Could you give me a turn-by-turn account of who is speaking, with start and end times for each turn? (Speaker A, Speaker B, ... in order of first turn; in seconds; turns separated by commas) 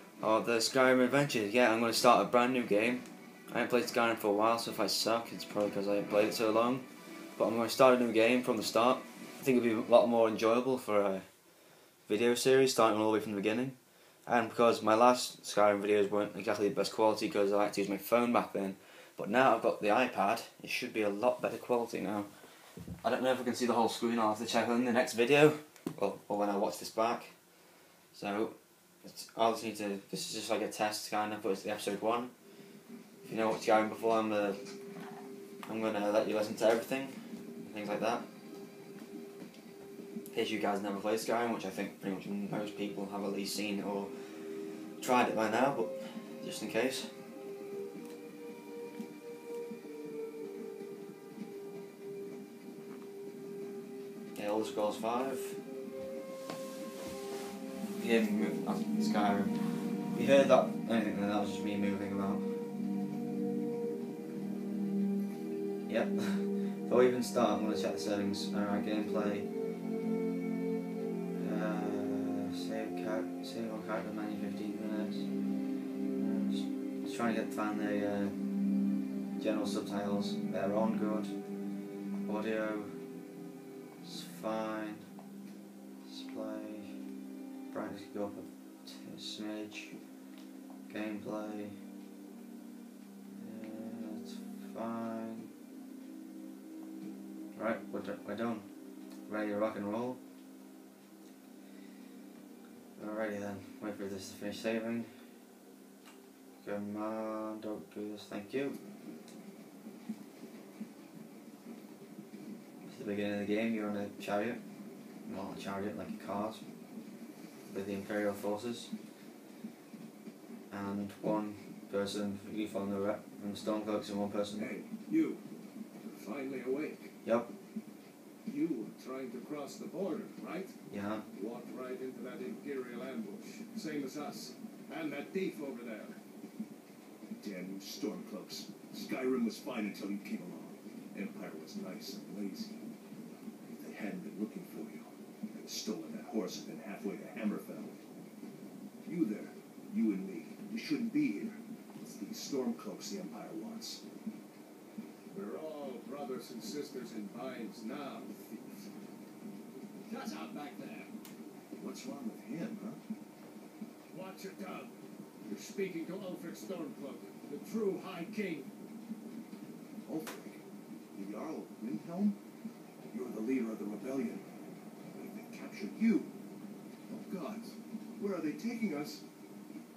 Speaker A: 0.2-11.3, Speaker A: 12.1-22.3, Speaker A: 23.0-27.3, Speaker A: 28.1-32.3, Speaker A: 33.2-34.6, Speaker A: 35.7-38.3, Speaker A: 40.3-47.1, Speaker A: 54.4-55.6, Speaker A: 58.0-62.5, Speaker A: 65.9-69.5, Speaker A: 71.4-75.3, Speaker A: 76.2-78.4, Speaker A: 79.4-81.3, Speaker A: 82.2-82.9, Speaker A: 84.0-85.0, Speaker A: 86.0-86.9, Speaker A: 87.7-90.0, Speaker A: 90.9-91.8, Speaker A: 93.4-95.5, Speaker A: 97.5-98.7, Speaker A: 99.3-100.2, Speaker A: 103.0-105.1, Speaker A: 106.6-108.8, Speaker A: 112.9-114.6, Speaker A: 115.3-116.6, Speaker A: 117.7-118.9, Speaker A: 120.7-124.7, Speaker B: 124.6-125.4, Speaker B: 126.0-127.1, Speaker A: 127.2-127.5, Speaker B: 128.5-130.7, Speaker A: 130.9-131.2, Speaker B: 131.3-136.2, Speaker C: 137.4-142.8, Speaker C: 143.7-148.0, Speaker C: 149.1-154.0, Speaker B: 155.3-158.9, Speaker B: 160.1-161.1, Speaker C: 161.8-163.0, Speaker B: 164.1-168.7, Speaker C: 170.1-170.6, Speaker C: 171.2-172.4, Speaker C: 173.1-174.5, Speaker C: 175.2-176.3, Speaker C: 177.1-179.2